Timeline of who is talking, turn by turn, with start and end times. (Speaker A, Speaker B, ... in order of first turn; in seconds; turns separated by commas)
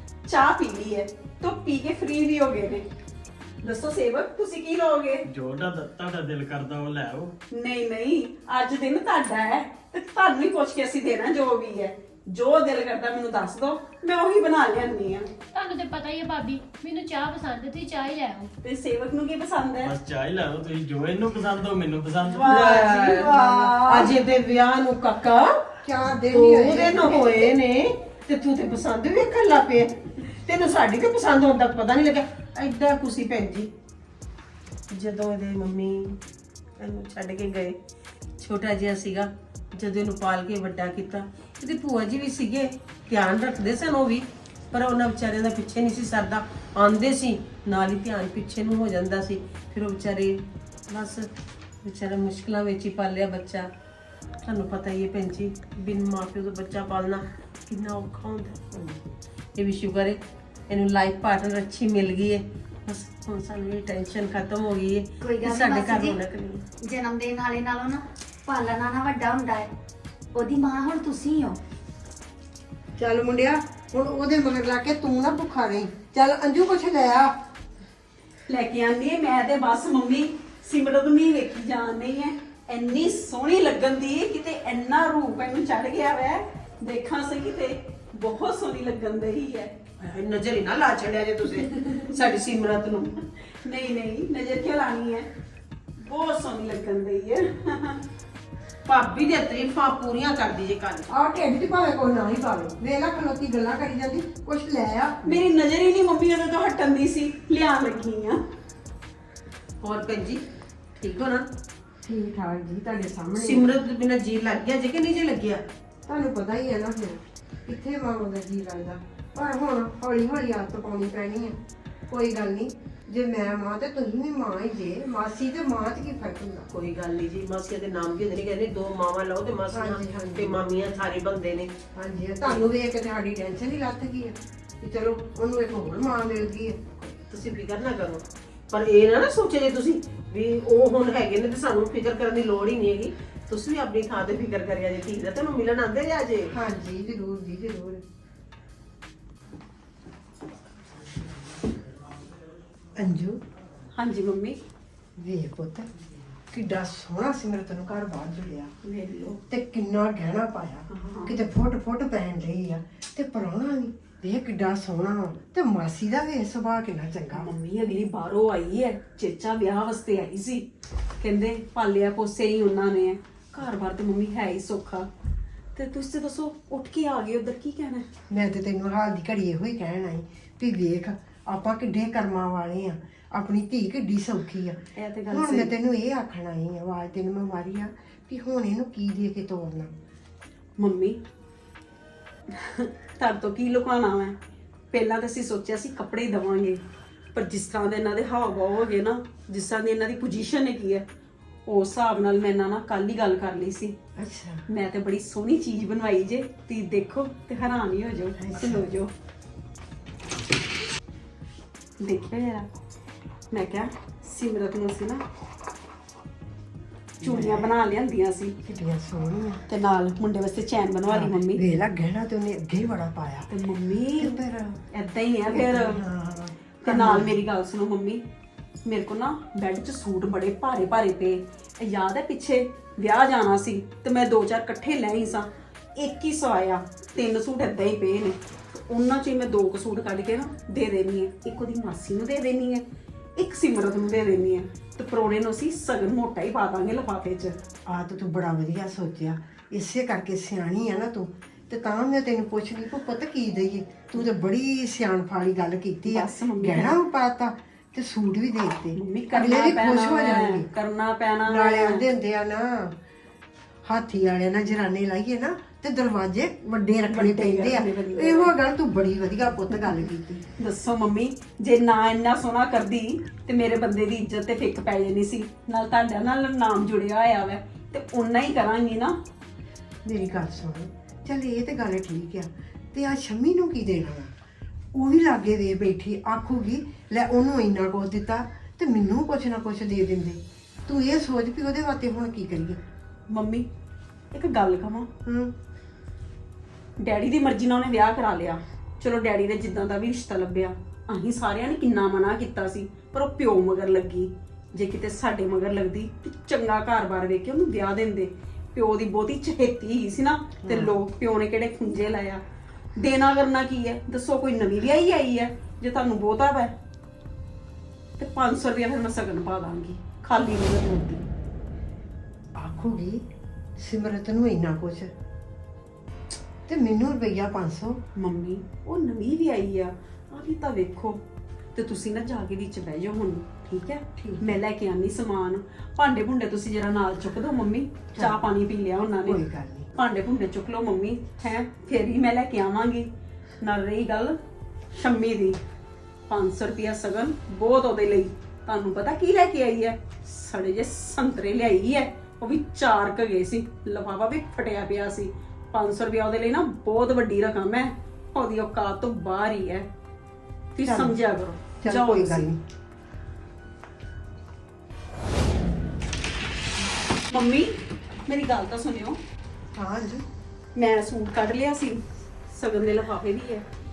Speaker A: 0.3-2.9, Speaker A: 3.6-5.2, Speaker B: 5.3-7.3, Speaker A: 7.5-15.3, Speaker C: 15.5-18.5, Speaker A: 18.6-20.0, Speaker B: 19.9-22.4, Speaker A: 22.2-24.1, Speaker D: 22.4-25.5, Speaker E: 25.8-27.6, Speaker D: 26.3-33.7, Speaker D: 34.9-36.2, Speaker D: 36.8-37.8, Speaker D: 38.4-51.3, Speaker D: 51.9-53.7, Speaker D: 54.4-58.7, Speaker D: 59.6-66.6, Speaker F: 65.2-66.2, Speaker F: 66.8-69.7, Speaker F: 70.3-71.6, Speaker E: 73.0-77.3, Speaker A: 78.5-89.8, Speaker D: 90.0-93.1, Speaker A: 93.6-95.3, Speaker A: 96.0-98.0, Speaker D: 98.9-101.1, Speaker E: 101.1-105.2, Speaker A: 105.3-108.4, Speaker D: 109.8-110.4, Speaker D: 111.0-111.5, Speaker E: 112.0-113.8, Speaker D: 113.3-115.6, Speaker E: 116.1-121.6, Speaker E: 122.1-126.7, Speaker D: 126.7-131.8, Speaker E: 129.7-130.6, Speaker E: 131.9-137.1, Speaker D: 137.3-146.5, Speaker E: 146.5-148.0, Speaker E: 153.0-153.4, Speaker A: 153.9-154.6, Speaker E: 155.2-155.9, Speaker E: 156.5-158.7, Speaker A: 158.8-159.4, Speaker E: 159.5-167.5, Speaker A: 160.9-161.4, Speaker A: 167.3-170.7, Speaker A: 171.2-175.1, Speaker A: 175.8-178.1, Speaker E: 178.3-189.9, Speaker A: 184.9-185.7, Speaker A: 190.8-191.2, Speaker A: 192.5-194.4, Speaker A: 194.9-196.8, Speaker A: 197.3-201.1, Speaker A: 201.7-203.9, Speaker E: 204.2-204.6, Speaker A: 204.7-209.1, Speaker E: 208.4-208.9, Speaker A: 212.0-212.7, Speaker A: 213.5-215.2, Speaker E: 217.2-217.7, Speaker A: 217.2-218.6, Speaker E: 218.6-219.6, Speaker A: 219.7-221.6, Speaker E: 221.1-223.5, Speaker A: 223.5-224.4, Speaker E: 224.2-224.8, Speaker A: 224.9-226.0, Speaker E: 225.5-227.4, Speaker A: 226.8-228.2, Speaker A: 228.9-242.8, Speaker A: 243.4-247.6, Speaker E: 247.9-260.7, Speaker A: 256.1-257.0, Speaker A: 258.9-262.0, Speaker E: 261.4-262.9, Speaker E: 263.9-270.4, Speaker A: 267.1-268.5, Speaker A: 269.7-270.0, Speaker A: 270.6-279.1, Speaker E: 280.1-284.3, Speaker E: 284.9-292.8, Speaker A: 293.3-293.6, Speaker A: 294.3-295.1, Speaker E: 295.2-295.5, Speaker A: 297.0-312.4, Speaker E: 310.6-311.0, Speaker A: 313.0-316.7, Speaker A: 318.2-321.2, Speaker E: 322.6-323.2, Speaker E: 323.8-325.1, Speaker E: 326.7-328.0, Speaker A: 328.2-331.2, Speaker A: 331.8-339.4, Speaker E: 334.2-334.6, Speaker E: 339.2-339.9, Speaker A: 339.9-343.1, Speaker A: 343.6-344.4, Speaker A: 344.9-345.6, Speaker A: 346.3-359.9, Speaker A: 360.8-362.5, Speaker E: 360.9-361.2, Speaker E: 361.8-362.6, Speaker A: 367.3-367.7, Speaker A: 368.3-369.2, Speaker E: 369.8-370.2, Speaker A: 370.8-373.6